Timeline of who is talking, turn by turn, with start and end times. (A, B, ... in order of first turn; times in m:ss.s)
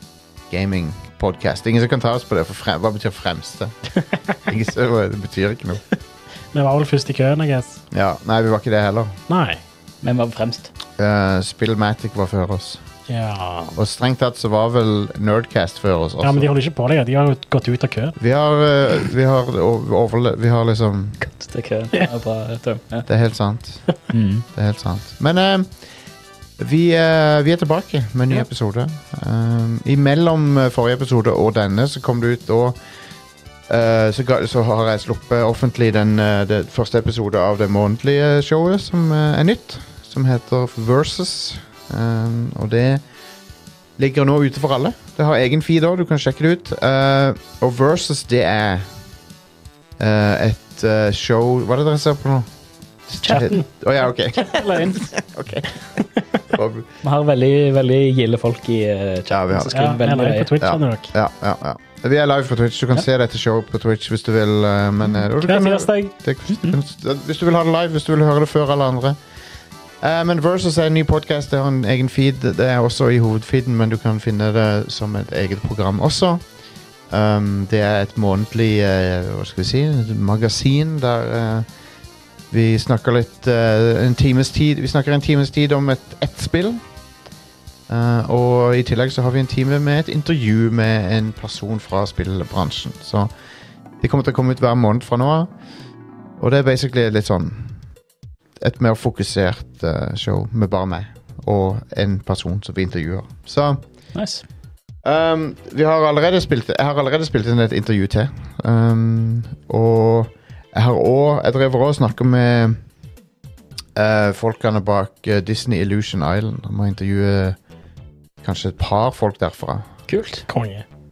0:00.5-0:03.8 A
0:04.4-0:05.8 A
0:06.5-0:07.8 B
0:07.9-0:09.2 A
0:09.3-0:09.6 B
0:10.0-0:10.7 C
0:11.0-0:12.8 A
0:13.1-0:13.8 B
0:13.7-0:16.5 A
0:16.2-0:18.2 B
0:18.2-0:21.2 A
0:21.2-0:23.1 C
0:23.1-0:23.9 A
0:24.1-0:24.4 C
0:24.5-0:25.7 A
0:26.6-0:32.8 A
0:33.7-0:43.0 A
0:44.0-0:48.9 A
0:50.0-0:52.5 A
0:53.1-0:56.9 A
0:53.2-0:53.6 C
0:53.3-0:53.6 B
0:54.4-0:55.1 C
0:57.0-1:00.5 C
0:59.3-0:59.8 A
0:59.7-1:01.1 B
1:00.6-1:09.2 A
1:05.4-1:06.1 B
1:06.5-1:06.8 C
1:10.0-1:16.4 A
1:17.1-1:21.7 A
1:22.5-1:26.8 A
1:27.9-1:33.3 A
1:34.0-1:35.5 A
1:36.4-1:37.8 A
1:38.6-1:43.8 A
1:44.1-1:44.4 C
1:45.0-1:52.8 A
1:54.0-1:57.6 A
1:58.4-1:59.9 A
2:00.1-2:00.4 C
2:00.5-2:00.8 B